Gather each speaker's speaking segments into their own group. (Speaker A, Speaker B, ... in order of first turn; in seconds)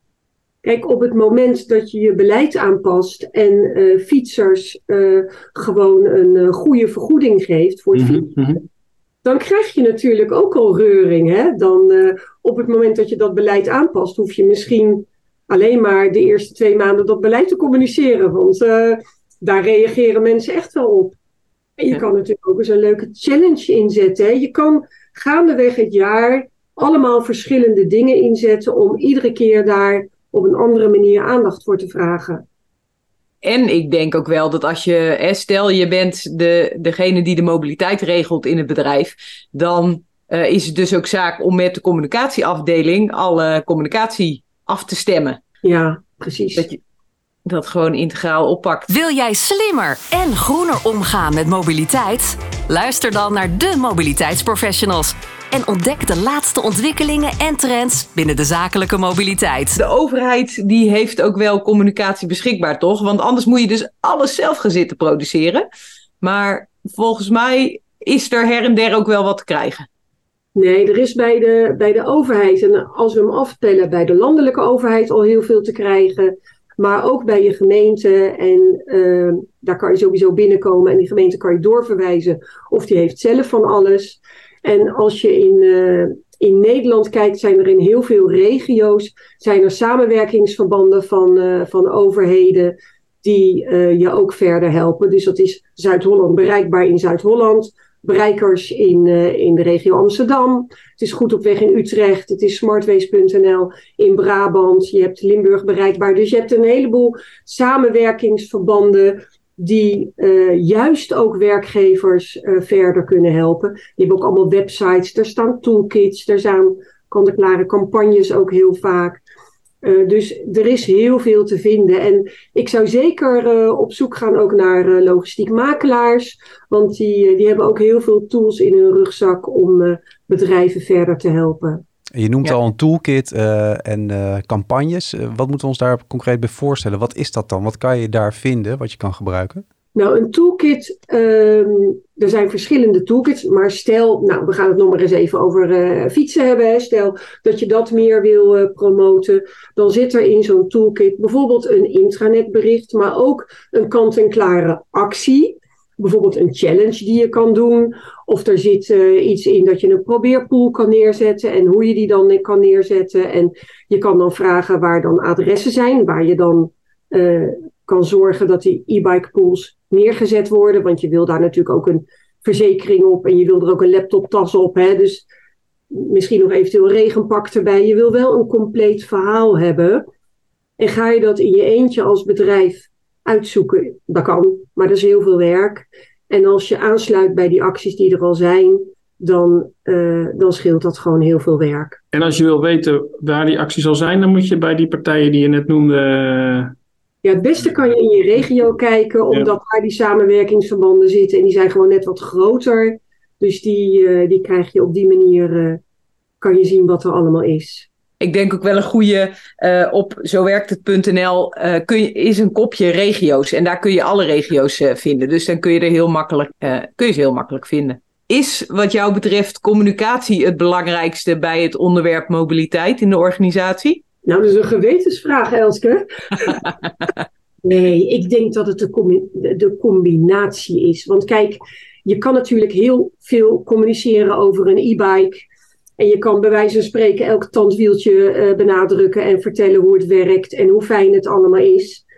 Speaker A: 0.6-8.3, 9.2-21.2, 21.8-32.4, 45.6-46.7, 70.5-119.2, 119.8-131.8, 139.9-175.2, 175.9-180.1, 180.8-192.0, 197.2-205.8, 206.4-207.9, 224.3-226.6, 227.6-235.4, 236.0-242.0
Speaker B: 7.9-8.7, 192.1-196.7
Speaker C: 33.4-45.4, 47.5-48.9, 59.8-65.7, 66.2-69.9, 208.2-224.0
Speaker D: 48.9-59.8
Speaker E: 132.1-139.6